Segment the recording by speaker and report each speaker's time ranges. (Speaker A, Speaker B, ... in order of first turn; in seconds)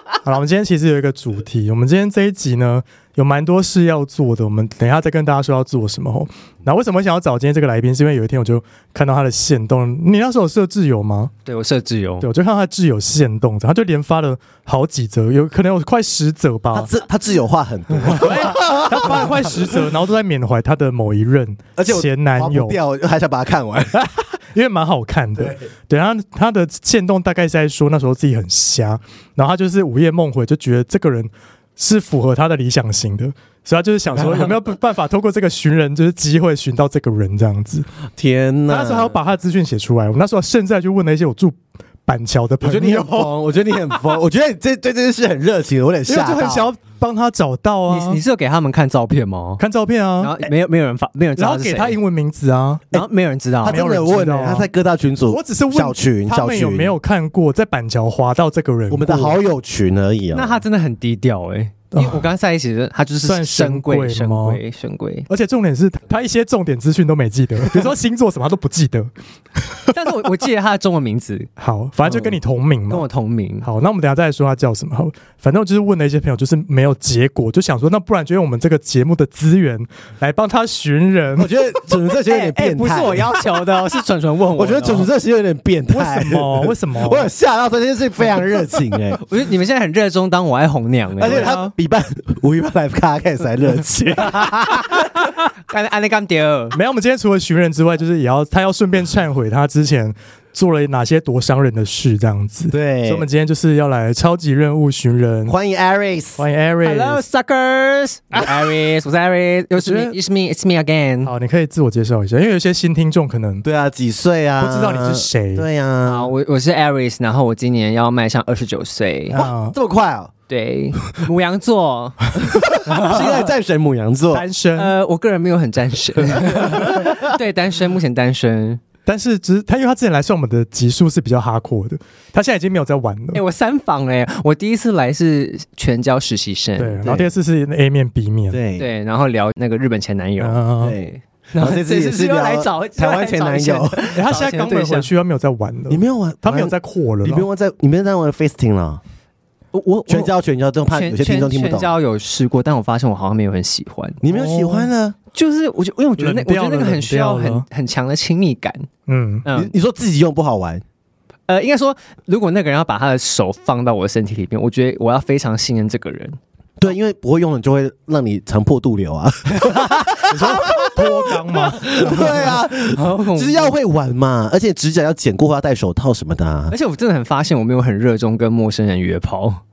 Speaker A: 0.2-11.3, 12.2-16.9, 18.0-22.8, 24.0-37.9, 38.7-43.3, 46.1-48.2, 49.6-50.4, 51.4-52.9, 53.6-54.7, 55.3-59.4, 61.9-62.2, 63.2-64.6, 65.3-70.1, 71.6-73.0, 73.6-81.5, 85.9-87.3, 91.2-91.7, 96.7-105.5, 106.4-107.2, 109.7-110.1, 111.2-113.6, 114.6-115.7, 119.3-119.7, 124.3-124.9, 129.1-133.4, 136.8-138.6, 140.4-141.0, 144.1-147.5, 154.3-154.9, 156.2-157.6, 159.1-159.4, 170.3-171.9
Speaker B: 11.4-12.3, 47.9-49.6, 50.2-52.0, 52.9-53.8, 60.3-65.3, 69.9-71.5, 72.9-73.7, 82.2-85.1, 89.2-91.5, 95.7-96.8, 106.8-111.3, 116.0-119.3, 120.5-122.3, 122.8-123.4, 124.7-128.8, 133.3-137.1, 138.8-140.6, 141.5-145.1, 149.7-150.3, 150.9-154.2, 155.3-158.9, 159.4-159.7, 161.5-166.4, 171.9-173.7, 176.7-179.6
Speaker C: 16.7-19.8, 21.8-24.0, 38.1-39.2, 42.6-46.7, 53.6-57.0, 58.9-60.6, 81.4-83.3, 84.5-89.2, 91.2-95.1, 102.7-103.3, 105.5-106.4, 113.6-116.3, 119.3-120.3, 122.5-124.4, 126.6-127.2, 137.0-137.3, 138.5-138.8, 140.8-144.1, 145.9-149.0, 150.1-151.9, 154.2-155.2, 159.5-160.8, 166.8-176.7